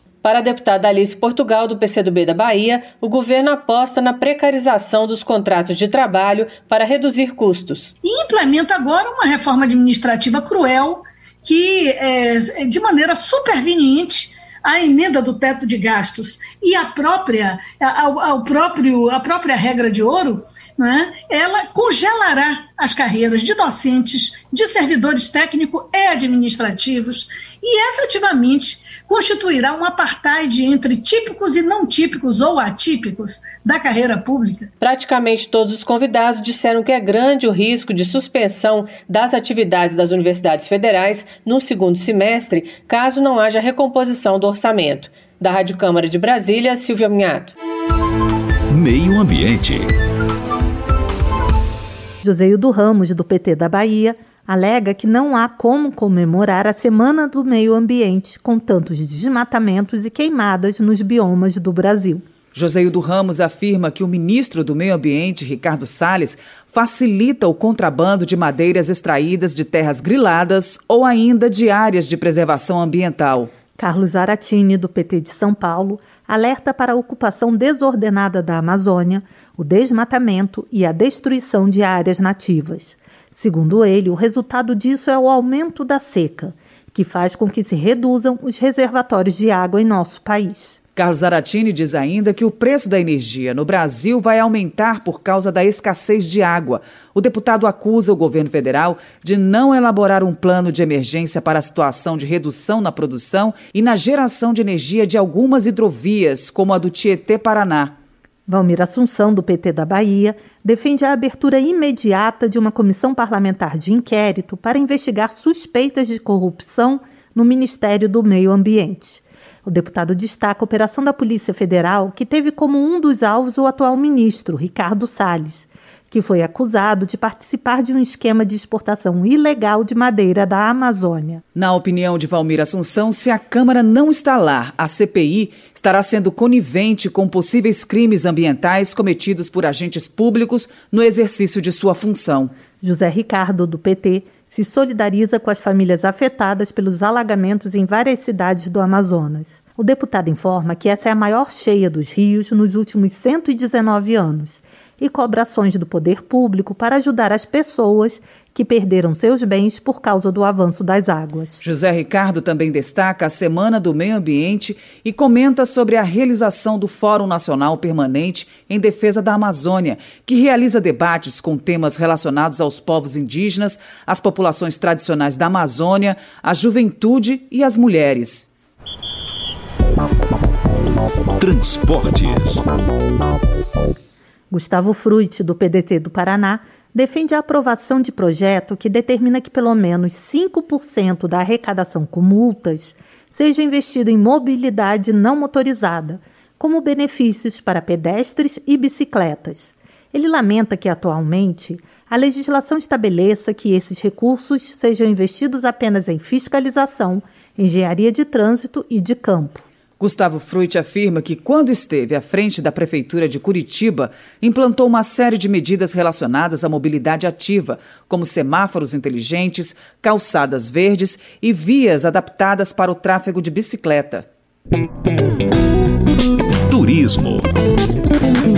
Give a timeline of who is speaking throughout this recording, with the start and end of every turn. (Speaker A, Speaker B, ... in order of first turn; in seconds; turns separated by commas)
Speaker A: 0.2-7.9, Speaker B: 8.0-34.7, Speaker A: 34.8-47.5, Speaker C: 48.7-49.9, Speaker D: 52.2-62.2, Speaker E: 62.5-73.5, Speaker D: 73.8-90.8, Speaker E: 91.0-107.9, Speaker D: 108.5-131.4, Speaker E: 131.5-142.5, Speaker D: 142.8-161.6, Speaker E: 161.6-178.5, Speaker C: 181.4-182.6, Speaker D: 184.5-209.6, Speaker E: 210.0-224.2, Speaker C: 226.7-227.5